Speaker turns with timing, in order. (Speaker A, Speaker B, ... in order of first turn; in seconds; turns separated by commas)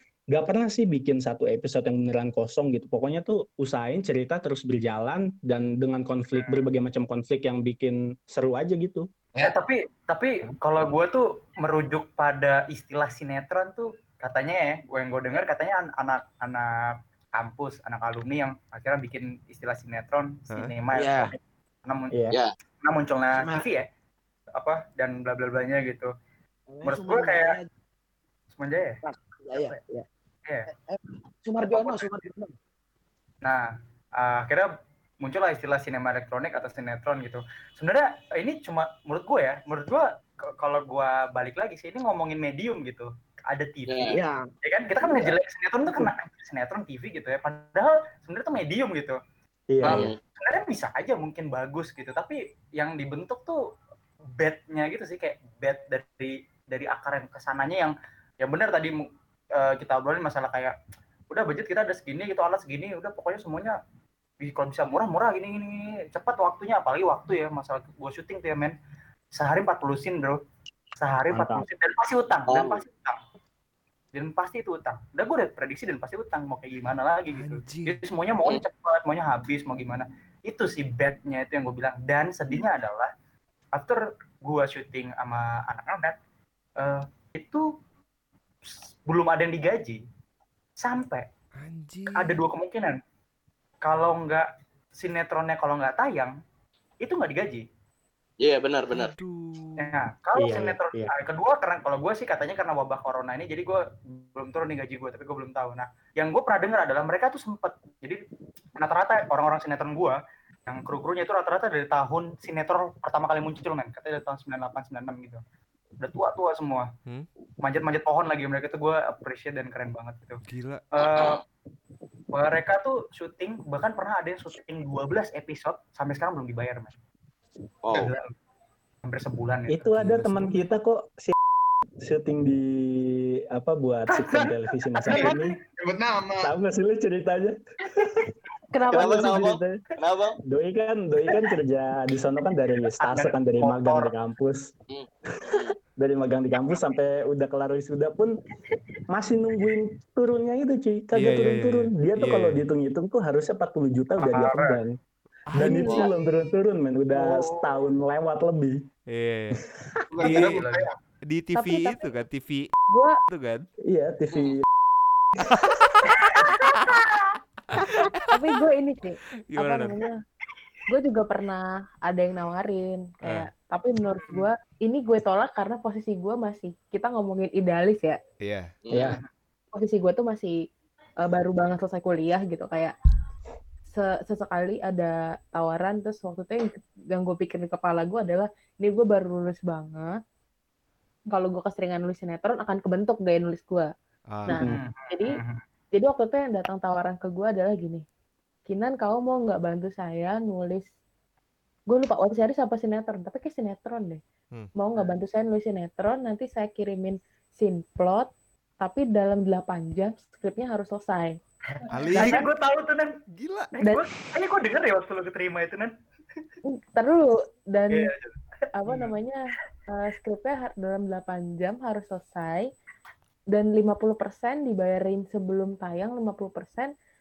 Speaker A: 0.3-9.1, Speaker B: 6.4-6.7, Speaker B: 9.4-22.1, Speaker C: 20.9-21.3, Speaker B: 22.8-23.9, Speaker C: 23.4-23.7, Speaker B: 24.6-26.1, Speaker C: 26.7-27.6, Speaker B: 26.8-27.6, Speaker B: 28.6-29.0, Speaker C: 29.0-30.1, Speaker C: 30.7-32.5, Speaker B: 31.6-32.3, Speaker B: 34.2-34.7, Speaker B: 35.2-40.1, Speaker B: 40.6-49.2, Speaker D: 43.9-44.1, Speaker C: 44.1-44.4, Speaker C: 45.0-45.4, Speaker A: 49.7-50.0, Speaker B: 49.8-53.6, Speaker D: 49.9-50.2, Speaker B: 54.4-58.9, Speaker B: 59.6-60.7, Speaker B: 61.3-63.8, Speaker B: 64.4-68.7, Speaker B: 69.4-70.4, Speaker B: 71.0-73.2, Speaker A: 71.3-71.7, Speaker D: 72.5-72.8, Speaker B: 74.1-83.1, Speaker E: 77.3-78.0, Speaker B: 83.8-86.2, Speaker B: 86.8-87.6, Speaker B: 89.1-90.0, Speaker B: 90.8-91.3, Speaker E: 91.6-92.4, Speaker B: 92.2-93.0, Speaker B: 93.8-94.5, Speaker B: 95.0-96.3, Speaker B: 97.0-97.6, Speaker D: 98.4-99.1, Speaker E: 98.9-99.9, Speaker B: 99.8-108.2, Speaker A: 100.4-101.1, Speaker B: 108.8-110.2, Speaker B: 110.7-115.4, Speaker B: 116.0-116.9, Speaker B: 117.6-120.4, Speaker E: 120.5-120.9, Speaker B: 120.9-121.4, Speaker D: 121.0-121.4, Speaker B: 122.3-127.0, Speaker D: 127.8-128.1, Speaker B: 128.0-128.3, Speaker B: 129.1-129.9, Speaker A: 129.7-131.3, Speaker E: 130.0-130.5, Speaker A: 132.0-135.6, Speaker B: 135.1-135.4, Speaker F: 135.1-136.5, Speaker A: 136.4-138.1, Speaker G: 138.7-139.5, Speaker A: 138.9-139.8, Speaker D: 138.9-140.4, Speaker A: 140.5-144.7, Speaker B: 143.0-144.1, Speaker D: 144.9-145.8, Speaker A: 145.5-148.3, Speaker A: 149.1-155.0, Speaker E: 151.2-152.6, Speaker B: 154.2-154.8, Speaker A: 155.5-158.8, Speaker G: 155.6-156.1, Speaker B: 157.1-157.7, Speaker E: 159.1-159.7, Speaker F: 160.1-160.9, Speaker E: 160.2-160.7, Speaker B: 160.2-160.9, Speaker E: 161.3-162.7, Speaker G: 161.6-162.1, Speaker G: 162.9-163.2, Speaker E: 163.3-163.7, Speaker A: 163.9-164.6, Speaker E: 165.4-166.9, Speaker B: 166.1-166.5, Speaker E: 167.7-168.5, Speaker G: 168.3-170.2, Speaker E: 169.5-170.1, Speaker G: 170.9-178.2, Speaker E: 178.4-178.7, Speaker D: 178.8-179.2, Speaker A: 178.9-179.2, Speaker G: 179.7-180.5, Speaker G: 181.2-182.9, Speaker G: 183.9-190.1, Speaker G: 191.3-193.9, Speaker E: 194.3-194.6, Speaker G: 194.5-195.4, Speaker B: 194.6-195.6, Speaker G: 195.9-198.0, Speaker G: 198.7-200.9, Speaker G: 201.9-204.2, Speaker G: 204.8-208.3, Speaker G: 208.8-211.4, Speaker E: 211.9-212.5, Speaker B: 212.1-213.2, Speaker G: 212.1-212.4, Speaker E: 213.3-213.7, Speaker G: 213.8-214.1, Speaker B: 213.8-215.9, Speaker G: 216.7-218.1, Speaker B: 217.9-219.1, Speaker G: 218.8-222.7, Speaker G: 223.5-226.9